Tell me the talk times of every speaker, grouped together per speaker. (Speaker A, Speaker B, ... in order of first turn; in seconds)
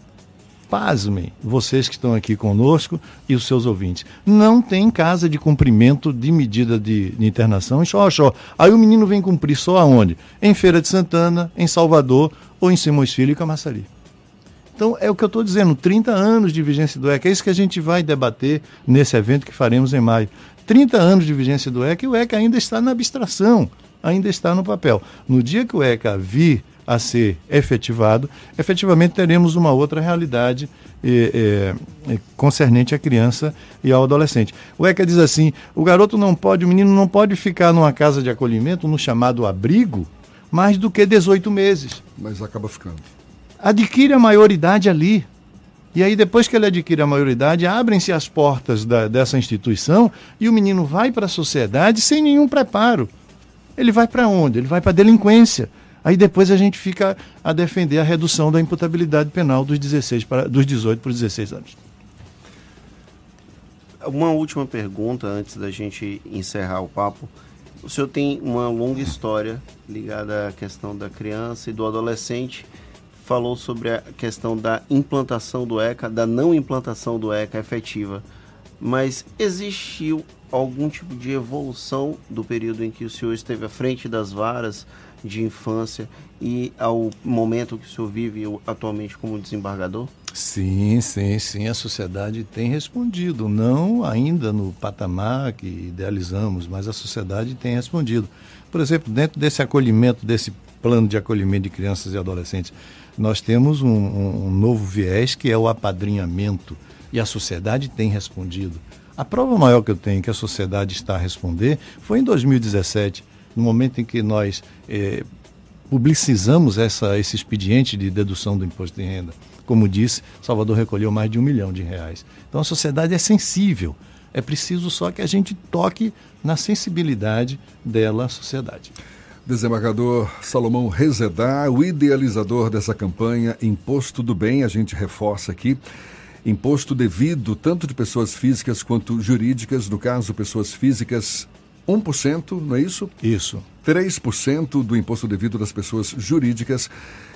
Speaker A: 0.7-13.9, 14.8-42.0, 43.6-45.3, 45.9-53.1, 53.8-61.8, 90.3-115.3, 115.9-128.9, 143.2-143.6
Speaker B: 42.2-43.1, 129.4-135.8, 136.4-143.1, 143.8-146.9
Speaker C: 64.0-78.2, 78.8-90.1